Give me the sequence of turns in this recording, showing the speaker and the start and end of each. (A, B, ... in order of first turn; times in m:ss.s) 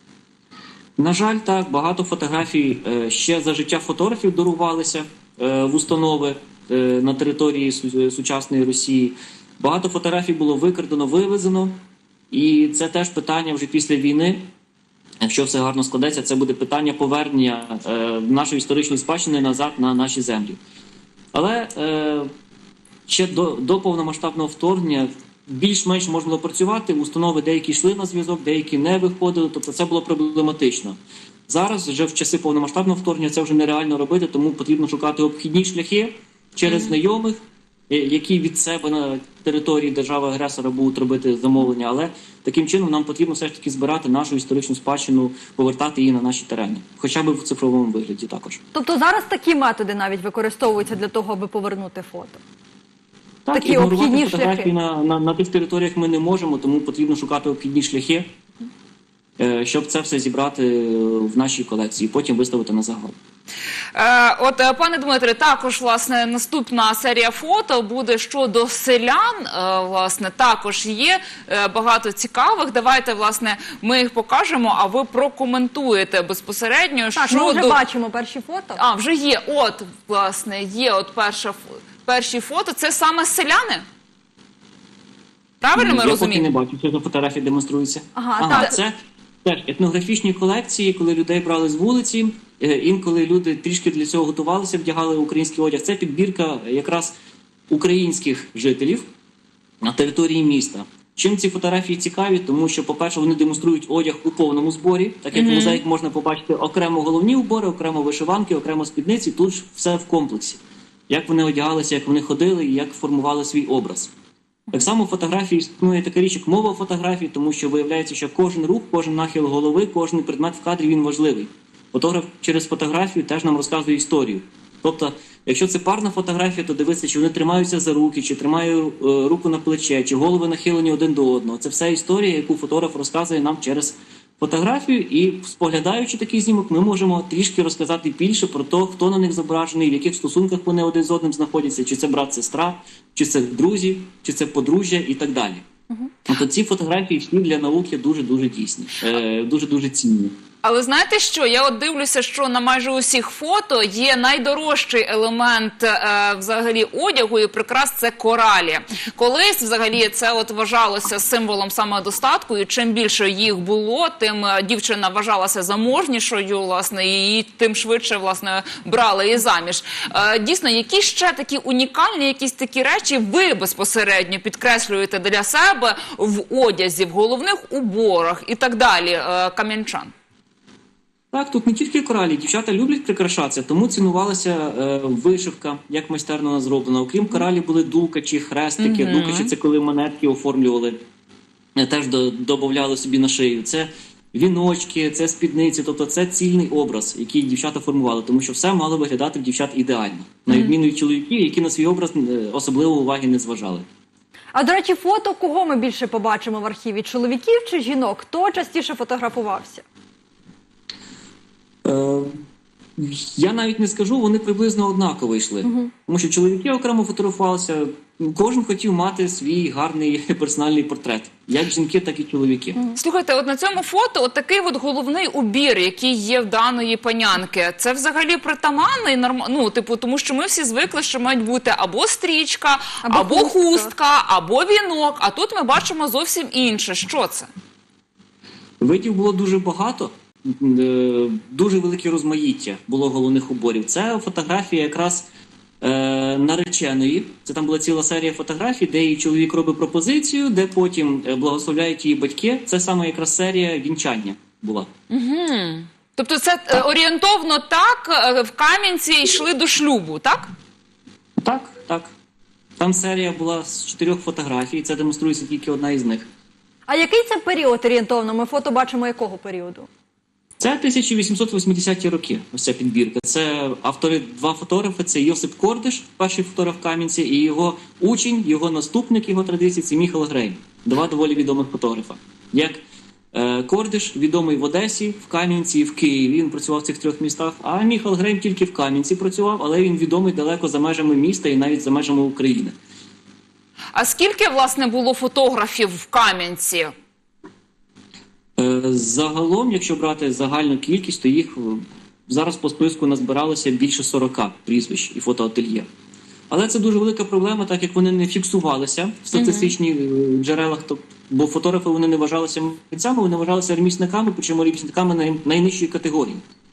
0:01.0-0:11.8 A
0:12.3-0:14.4 A
0:15.2-0:20.6 A
0:21.3-0:22.3 A
0:23.1-0:31.0 A
0:31.5-0:48.6 A
0:36.7-0:36.9 B
0:48.7-0:52.4 C
0:53.4-0:58.3 A
0:53.5-0:54.7 C
0:59.4-1:03.2 A
1:03.9-1:17.8 B
1:17.2-1:18.8 C
1:18.8-1:23.8 B
1:25.6-1:26.4 B
1:25.8-1:37.1 A
1:28.2-1:28.8 C
1:28.5-1:28.7 B
1:37.7-1:39.1 A
1:39.8-1:54.1 A
1:45.3-1:45.8 B
1:54.7-2:25.6 A
2:26.3-2:30.3 A
2:30.6-3:00.1 B
3:01.3-3:11.0 A
3:08.8-3:09.5 B
3:11.7-3:23.8 A
3:20.5-3:20.7 B
3:24.5-3:29.8 C
3:31.8-3:32.4 A
3:33.0-3:42.8 A
3:35.6-3:35.9 C
3:43.0-3:57.5 B
3:53.0-3:53.9 C
3:58.8-4:05.3 A
4:05.8-4:14.9 A
4:15.1-4:20.5 B
4:21.4-4:22.1 A
4:22.8-4:26.2 A
4:26.9-4:29.9 C
4:30.6-4:42.8 A
4:43.3-4:52.8 A
4:53.9-4:56.9 B
4:58.6-5:05.8 A
5:06.5-5:16.4 A
5:09.3-5:09.7 B